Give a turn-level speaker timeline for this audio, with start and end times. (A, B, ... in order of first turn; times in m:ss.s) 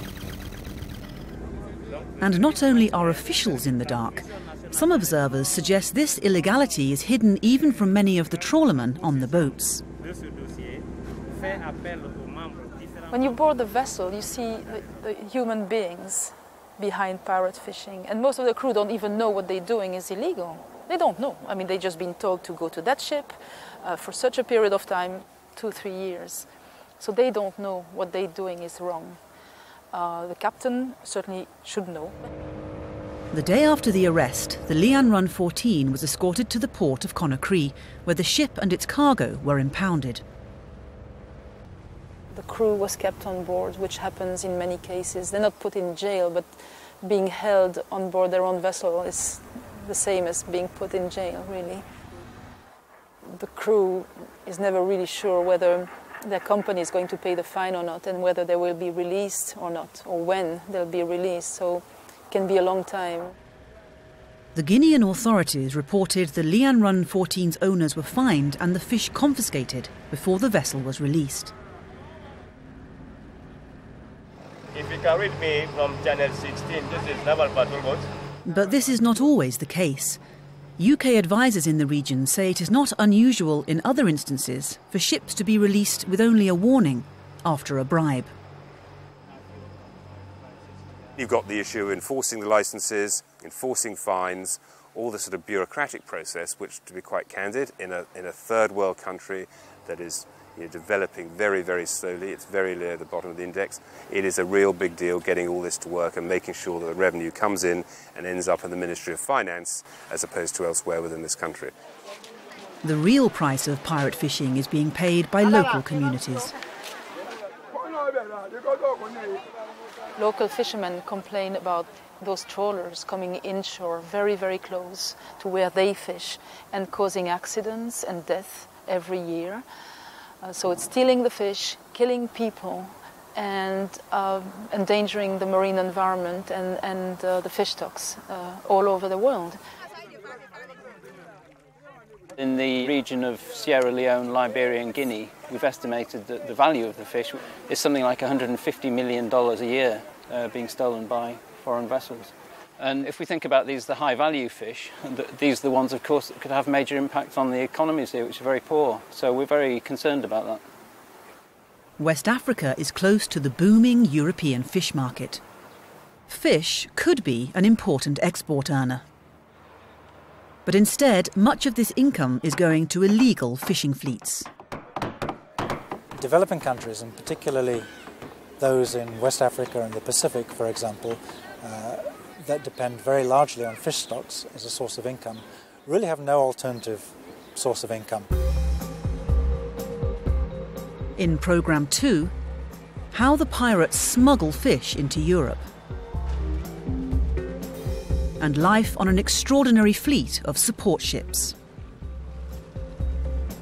0:02.2-0:09.8 A
0:10.0-0:13.1 B
0:13.1-0:26.5 C
0:27.0-0:29.2 C
0:29.9-0:32.2 C
0:33.3-0:40.2 A
0:42.3-0:51.8 C
0:53.2-1:03.4 C
1:04.5-1:11.5 A
1:14.7-1:18.1 B
1:18.4-1:20.2 A
1:20.8-1:28.3 A
1:31.2-1:51.7 D
1:52.8-1:56.5 A
2:00.2-2:09.6 C
2:10.4-2:19.6 C
2:22.4-2:40.6 E
2:42.0-2:45.4 A
2:46.3-2:49.0 A
2:50.7-2:54.5 A
2:56.1-2:57.9 F
2:58.6-3:08.3 F
3:11.2-3:12.3 A
3:13.1-3:15.7 A
3:18.4-3:21.6 A